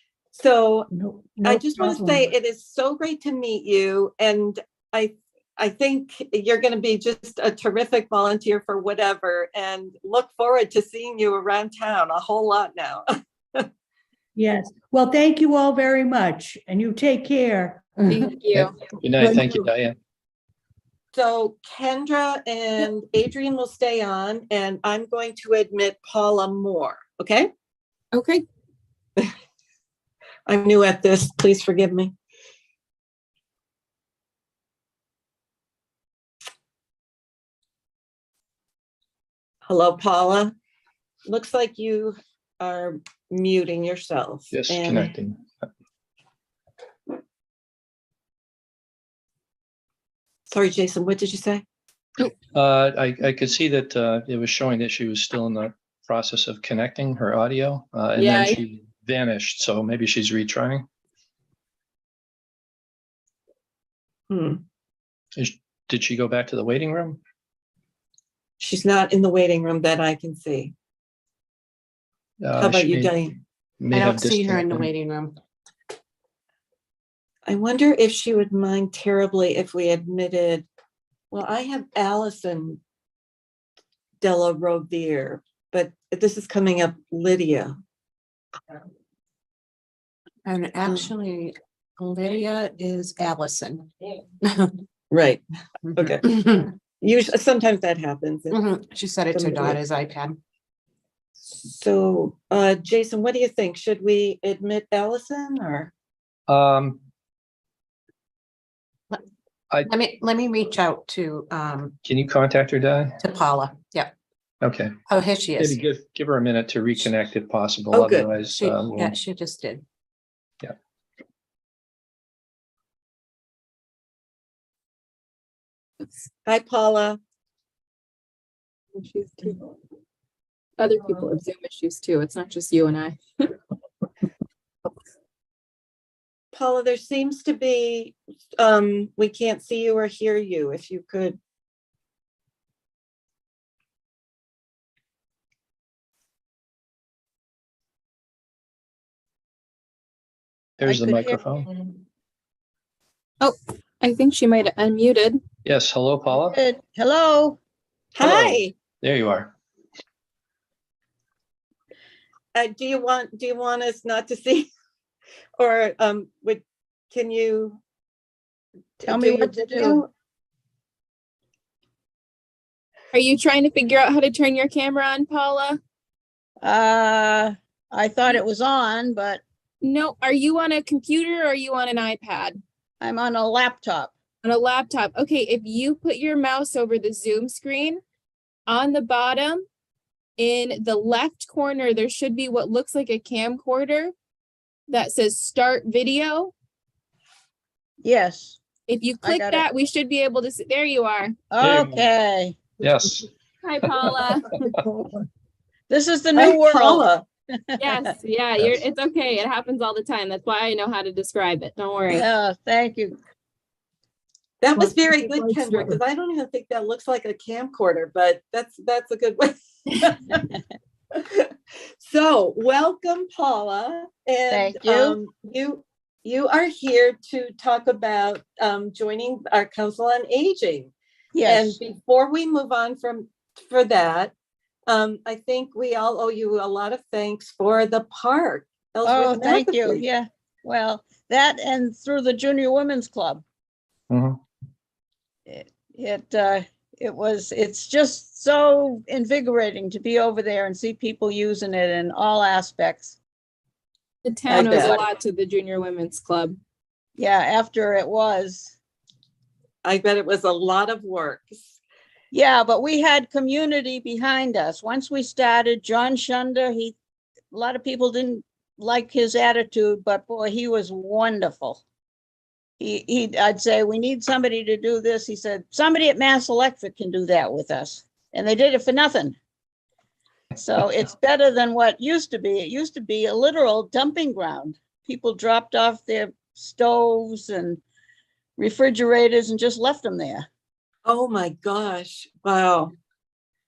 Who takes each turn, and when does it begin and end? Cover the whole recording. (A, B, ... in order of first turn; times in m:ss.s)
0:00.3-0:00.9 A
0:00.9-0:02.3 B
0:01.4-0:13.7 A
0:14.4-0:18.3 B
0:18.1-0:18.8 C
0:18.5-0:20.0 D
0:19.2-0:19.6 B
0:21.1-0:27.5 A
0:28.1-0:28.4 C
0:30.5-0:32.1 A
0:39.7-0:40.5 A
0:41.3-0:45.1 A
0:44.5-0:45.6 D
0:50.5-0:51.6 A
0:52.2-1:00.9 D
0:58.2-0:58.6 C
1:04.3-1:04.6 A
1:05.4-1:07.2 D
1:08.6-1:10.7 A
1:12.4-1:13.2 D
1:12.6-1:13.4 A
1:13.8-1:14.9 D
1:13.9-1:15.4 E
1:17.5-1:20.7 A
1:21.3-1:22.8 A
1:24.2-1:27.8 A
1:30.4-1:33.9 E
1:30.8-1:31.1 A
1:34.4-1:34.8 E
1:35.1-1:35.4 A
1:35.9-1:36.3 A
1:36.2-1:36.6 E
1:37.0-1:38.6 A
1:38.5-1:40.4 E
1:39.3-1:39.8 A
1:41.5-1:45.9 A
1:46.5-1:47.0 D
1:49.9-1:52.0 E
1:52.0-1:53.2 D
1:53.2-1:54.1 E
1:54.6-1:55.0 D
1:55.1-1:55.8 E
1:55.6-1:59.2 D
1:57.9-1:58.3 A
1:58.5-1:59.8 E
2:06.5-2:07.2 A
2:09.0-2:09.7 C
2:10.8-2:13.5 C
2:16.5-2:21.4 A
2:30.8-2:31.7 D
2:30.8-2:31.4 F
2:33.4-2:35.4 C
2:35.6-2:36.6 D
2:36.3-2:37.6 F
2:38.2-2:38.7 A
2:38.2-2:39.5 D
2:42.6-2:44.7 A
2:45.6-2:47.8 A
2:49.0-2:50.1 A
2:49.1-2:50.0 F
2:53.1-2:55.8 C
2:56.6-2:59.4 F
2:59.8-3:02.6 C
3:03.0-3:04.1 F
3:04.4-3:08.0 C
3:08.7-3:09.6 C
3:10.4-3:14.1 C
3:14.9-3:16.5 C
3:18.0-3:18.6 F
3:18.9-3:21.4 C
3:19.2-3:19.6 F
3:21.5-3:22.6 F
3:21.6-3:22.1 D
3:22.8-3:23.3 D
3:23.6-3:24.5 C
3:25.9-3:28.0 F
3:26.4-3:27.2 A
3:27.8-3:32.3 C
3:32.1-3:33.2 F
3:34.6-3:40.4 A
3:41.1-3:41.5 A
3:42.0-3:50.9 A
3:44.5-3:45.2 F
3:51.3-3:51.8 F
3:51.5-3:54.3 A
3:54.9-4:00.0 A
3:59.0-4:03.4 F
4:04.1-4:04.4 D
4:05.5-4:13.2 F
4:14.2-4:16.6 C
4:14.5-4:15.0 F
4:14.5-4:15.0 A
4:17.2-4:18.7 F
4:19.8-4:21.7 A
4:22.3-4:27.0 F
4:27.5-4:31.8 F
4:32.8-4:39.4 F
4:40.6-4:47.8 F
4:48.6-4:50.5 F
4:51.1-4:53.0 A